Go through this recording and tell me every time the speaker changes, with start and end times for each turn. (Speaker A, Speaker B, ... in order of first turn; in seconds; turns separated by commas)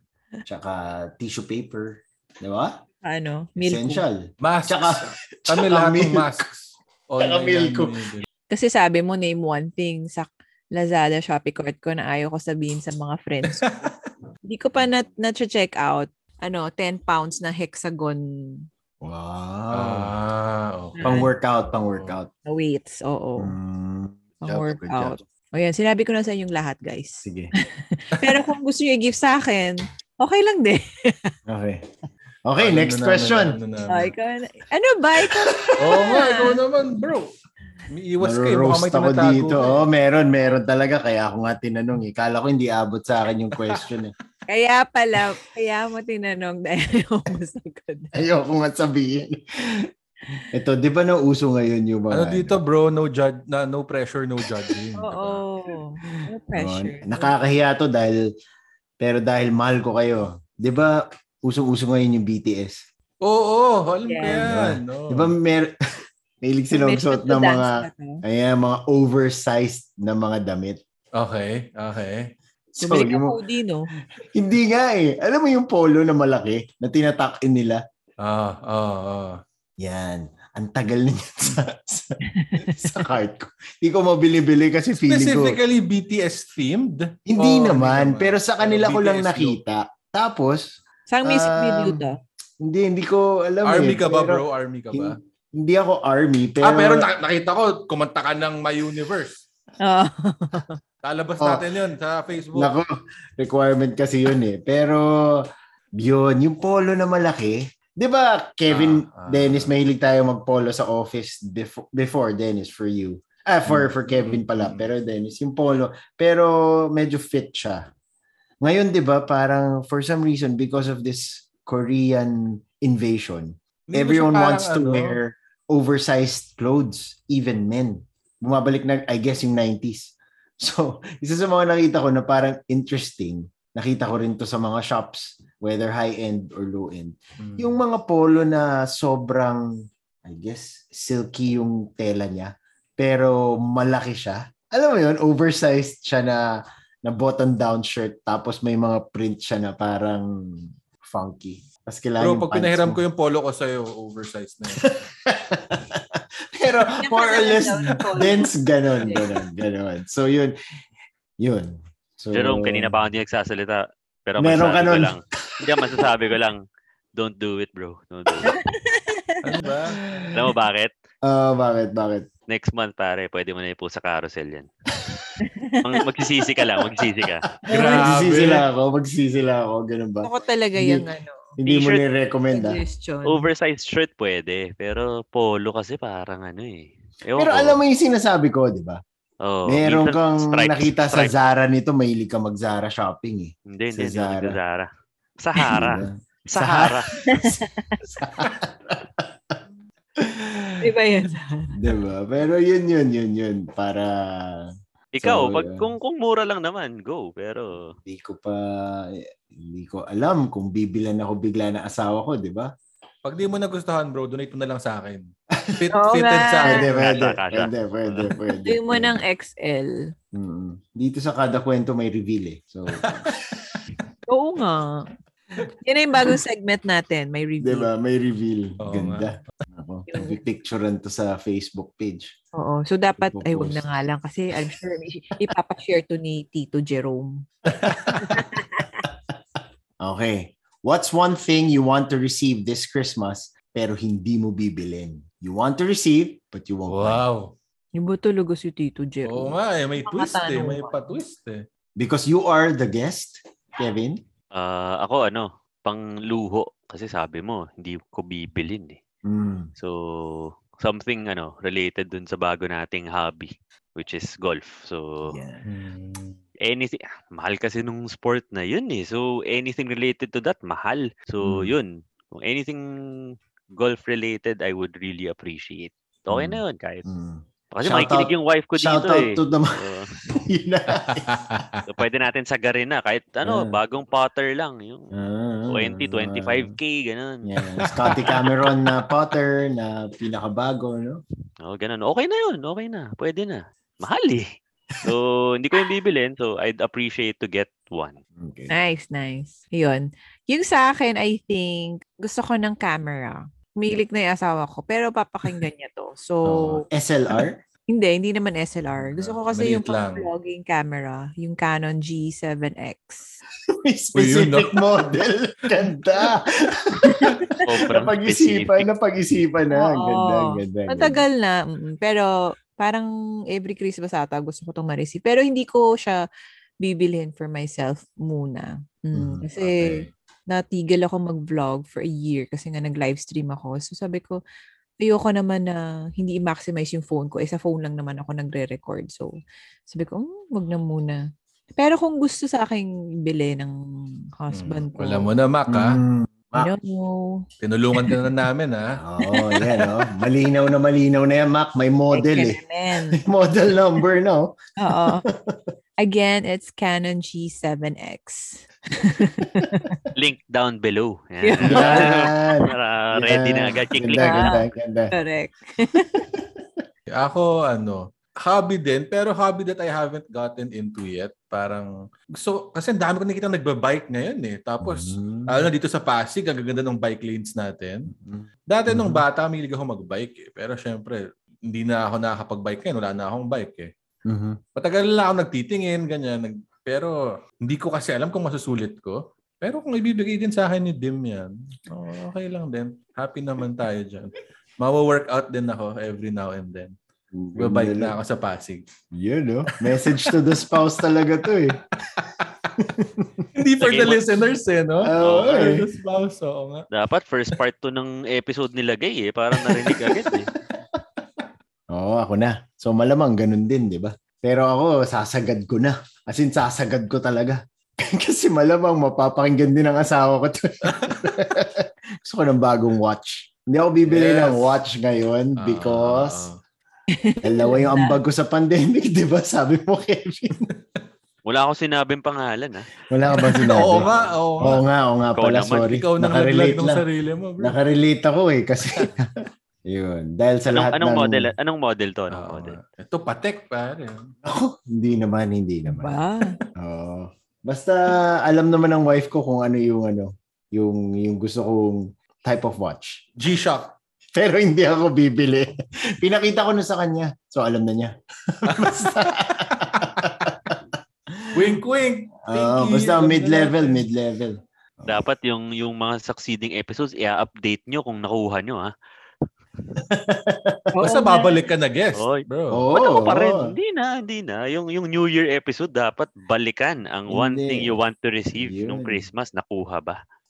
Speaker A: 0.5-2.8, Speaker B: 3.0-4.0, Speaker A: 3.6-6.3, Speaker C: 4.4-8.3, Speaker A: 7.2-8.1, Speaker B: 8.5-13.7, Speaker C: 13.5-13.9, Speaker B: 14.5-18.7, Speaker A: 19.0-20.1, Speaker C: 19.7-22.2, Speaker B: 21.0-21.3, Speaker A: 21.0-22.3, Speaker B: 22.5-23.6, Speaker A: 23.4-25.2, Speaker B: 24.4-31.3, Speaker A: 27.2-27.5, Speaker A: 31.5-31.9, Speaker A: 32.5-33.6, Speaker C: 32.6-34.1, Speaker B: 33.9-36.6, Speaker A: 35.3-35.8, Speaker C: 35.8-37.3, Speaker C: 37.9-39.8, Speaker A: 38.2-44.1, Speaker C: 43.7-43.9, Speaker B: 44.5-48.1, Speaker A: 48.1-49.9, Speaker A: 50.5-52.6, Speaker C: 52.1-55.4, Speaker B: 55.0-57.3, Speaker A: 56.1-58.2, Speaker A: 59.0-62.8, Speaker C: 63.2-65.3, Speaker B: 64.1-64.5, Speaker A: 64.2-65.7, Speaker A: 66.4-70.8, Speaker B: 66.7-68.2, Speaker C: 71.2-72.3, Speaker A: 72.7-73.4, Speaker B: 72.8-73.9, Speaker A: 74.2-77.8, Speaker C: 78.2-79.4, Speaker A: 79.8-85.6, Speaker B: 82.4-83.0, Speaker C: 85.1-89.6, Speaker A: 87.3-92.1, Speaker B: 91.1-92.2, Speaker A: 92.6-97.1, Speaker C: 93.7-95.2, Speaker C: 96.6-99.4, Speaker B: 99.8-100.8, Speaker C: 101.0-102.8, Speaker A: 102.5-105.5, Speaker A: 106.0-117.9, Speaker C: 108.7-109.8, Speaker C: 113.7-114.9, Speaker A: 118.6-139.7, Speaker C: 123.9-125.2, Speaker C: 137.4-137.8, Speaker A: 140.2-146.4, Speaker A: 147.1-153.0, Speaker C: 152.2-154.8, Speaker A: 154.8-160.6, Speaker B: 157.0-159.3, Speaker A: 161.4-162.9, Speaker D: 162.3-166.6, Speaker A: 164.4-166.1, Speaker D: 167.2-168.6, Speaker B: 168.4-169.5, Speaker C: 169.4-170.0, Speaker A: 169.9-170.4, Speaker D: 170.3-170.9, Speaker A: 171.3-172.3, Speaker D: 172.5-174.7, Speaker B: 175.4-176.1, Speaker D: 175.8-177.5, Speaker B: 176.6-176.9, Speaker A: 177.6-181.1, Speaker B: 177.7-178.1, Speaker C: 177.7-178.7, Speaker B: 180.2-181.5, Speaker A: 181.6-182.8, Speaker D: 181.6-182.0, Speaker B: 182.5-183.5, Speaker D: 183.2-187.8, Speaker A: 187.4-189.0, Speaker D: 189.4-191.3, Speaker A: 189.7-194.6, Speaker D: 193.7-194.9, Speaker D: 195.4-197.1, Speaker A: 195.6-199.6, Speaker B: 197.3-198.0, Speaker A: 200.2-200.8, Speaker B: 200.8-201.9, Speaker A: 201.7-205.9, Speaker D: 205.1-208.0, Speaker A: 208.1-212.7, Speaker C: 213.2-217.2, Speaker B: 215.9-216.9, Speaker A: 216.6-219.2, Speaker D: 216.9-218.3, Speaker B: 218.7-220.1, Speaker A: 220.3-223.3, Speaker C: 223.0-223.8, Speaker B: 224.3-225.1, Speaker B: 225.6-227.9, Speaker A: 227.6-232.3, Speaker C: 228.8-229.3, Speaker B: 230.1-230.4, Speaker B: 232.6-237.5, Speaker A: 233.2-233.9, Speaker C: 237.7-238.4, Speaker B: 238.2-239.1, Speaker A: 240.0-247.2, Speaker C: 246.9-247.6, Speaker B: 247.9-251.2, Speaker C: 249.2-251.6, Speaker A: 252.0-254.2, Speaker D: 254.5-259.0, Speaker A: 259.2-259.7, Speaker D: 259.8-265.3, Speaker A: 265.3-265.6, Speaker C: 265.6-266.4, Speaker D: 266.7-277.0, Speaker A: 271.4-271.7, Speaker A: 276.3-279.8, Speaker D: 277.7-280.1, Speaker A: 280.3-281.4, Speaker C: 281.0-281.8, Speaker D: 281.9-285.1, Speaker A: 283.4-283.8, Speaker A: 285.1-286.8, Speaker D: 285.7-287.5, Speaker A: 287.4-291.2, Speaker C: 287.9-288.7, Speaker D: 291.6-294.5, Speaker D: 295.0-298.2, Speaker A: 298.4-298.7, Speaker B: 298.7-306.9, Speaker A: 306.5-307.6, Speaker B: 307.9-313.4, Speaker C: 309.0-310.3, Speaker A: 313.8-321.2, Speaker C: 314.1-315.1, Speaker B: 317.0-317.6, Speaker D: 317.6-318.9, Speaker B: 319.7-326.2, Speaker B: 326.8-334.4, Speaker A: 329.1-329.4, Speaker C: 329.6-330.1, Speaker B: 335.0-339.3, Speaker B: 339.9-341.2, Speaker B: 341.8-343.8, Speaker B: 344.4-345.3, Speaker C: 344.5-346.0, Speaker A: 345.7-346.7, Speaker B: 346.6-347.5, Speaker C: 347.6-348.9, Speaker A: 349.0-352.6, Speaker B: 349.3-349.9, Speaker B: 352.1-353.2, Speaker A: 353.1-355.6, Speaker B: 354.8-355.2, Speaker B: 356.0-360.1, Speaker A: 359.6-359.9, Speaker D: 360.1-364.6, Speaker B: 361.4-362.4, Speaker A: 361.6-365.1, Speaker B: 364.1-366.2, Speaker A: 366.1-366.5, Speaker C: 367.1-378.1, Speaker A: 374.8-375.7, Speaker A: 378.1-379.2, Speaker C: 378.7-383.9, Speaker A: 384.3-384.6, Speaker C: 384.8-396.9, Speaker A: 397.3-398.2, Speaker C: 397.6-398.9, Speaker A: 399.1-401.8, Speaker C: 399.7-400.4, Speaker C: 402.0-402.7, Speaker A: 402.8-403.5, Speaker C: 403.6-406.9, Speaker D: 403.8-404.2, Speaker A: 405.0-405.9, Speaker D: 405.2-405.7, Speaker D: 406.9-410.5, Speaker A: 411.9-426.5, Speaker C: 420.9-421.4, Speaker C: 424.1-424.7, Speaker C: 425.6-426.6, Speaker B: 427.1-428.2, Speaker A: 427.4-430.7, Speaker D: 431.4-432.9, Speaker A: 433.1-434.1, Speaker C: 433.7-434.9, Speaker D: 433.9-434.3, Speaker A: 434.6-437.0, Speaker D: 435.4-435.9, Speaker C: 435.8-437.8, Speaker A: 437.6-439.3, Speaker A: 439.9-441.5, Speaker D: 440.7-442.8, Speaker C: 442.3-444.3, Speaker A: 444.4-446.2, Speaker B: 445.9-446.6, Speaker A: 446.8-453.2, Speaker C: 453.4-453.9, Speaker A: 454.4-460.8, Speaker C: 458.7-460.7, Speaker A: 461.3-461.6, Speaker C: 461.5-464.1, Speaker A: 462.5-465.2, Speaker D: 465.1-468.9, Speaker A: 470.1-470.9, Speaker B: 470.9-471.6, Speaker C: 471.0-472.9, Speaker D: 472.2-472.4, Speaker A: 472.7-473.8, Speaker D: 472.9-480.2, Speaker A: 477.3-478.0, Speaker A: 478.6-479.3